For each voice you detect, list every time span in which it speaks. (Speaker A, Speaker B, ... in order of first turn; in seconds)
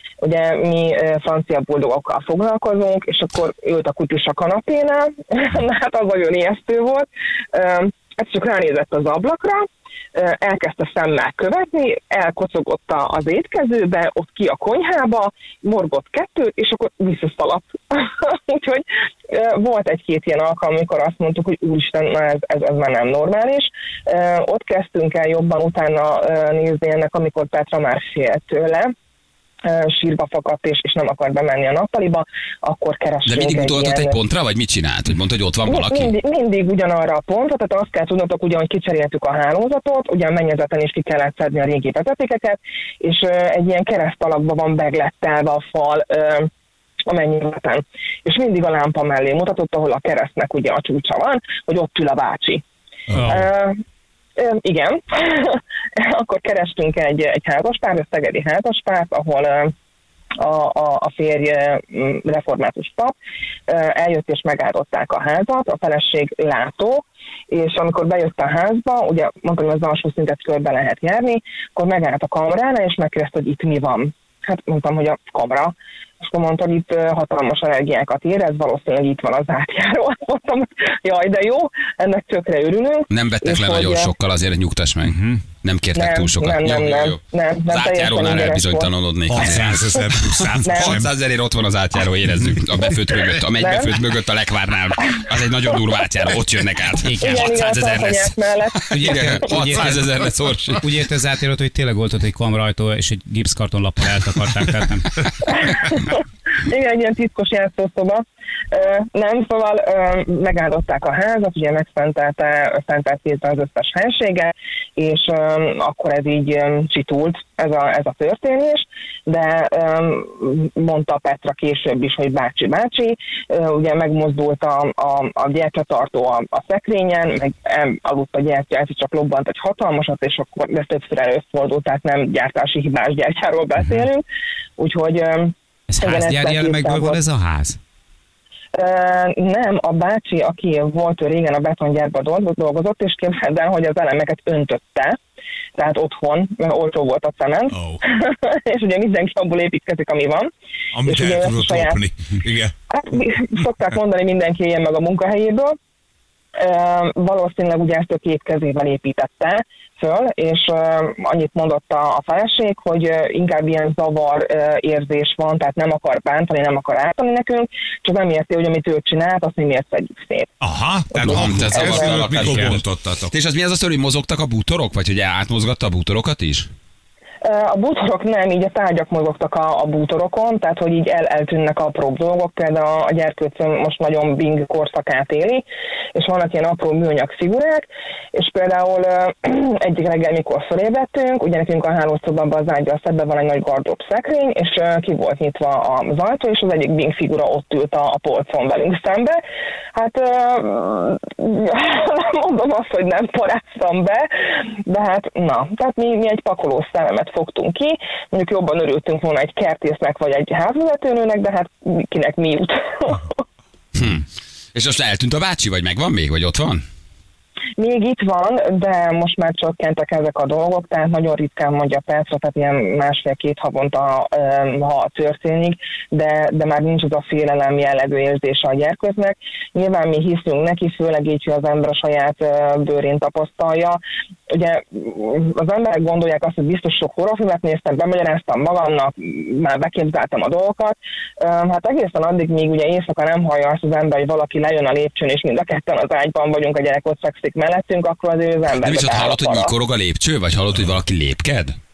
Speaker A: 0.2-28.9, 29.7-34.2, 35.6-46.5, 47.1-52.6, 53.2-53.8, 54.4-59.7, 60.4-63.1, 63.7-84.1, 86.0-88.9, 90.7-91.0, 93.5-94.0, 97.2-99.5, 105.5-134.2, 134.8-137.2, 138.8-145.2, 145.8-150.5, 151.1-152.0, 152.9-155.8, 156.6-170.5, 171.1-172.2, 177.4-185.6, 186.2-199.4, 199.9-213.4, 217.8-234.0, 234.5-249.7
Speaker B: 33.2-36.1, 83.1-100.9, 171.2-176.7, 213.9-216.8, 248.7-251.8
Speaker C: 53.1-53.5, 85.0-85.5, 97.0-97.5, 98.9-105.3, 133.8-134.1, 135.9-137.8, 172.4-172.8
Speaker D: 89.3-91.1, 147.7-148.0, 150.9-152.7, 170.6-173.3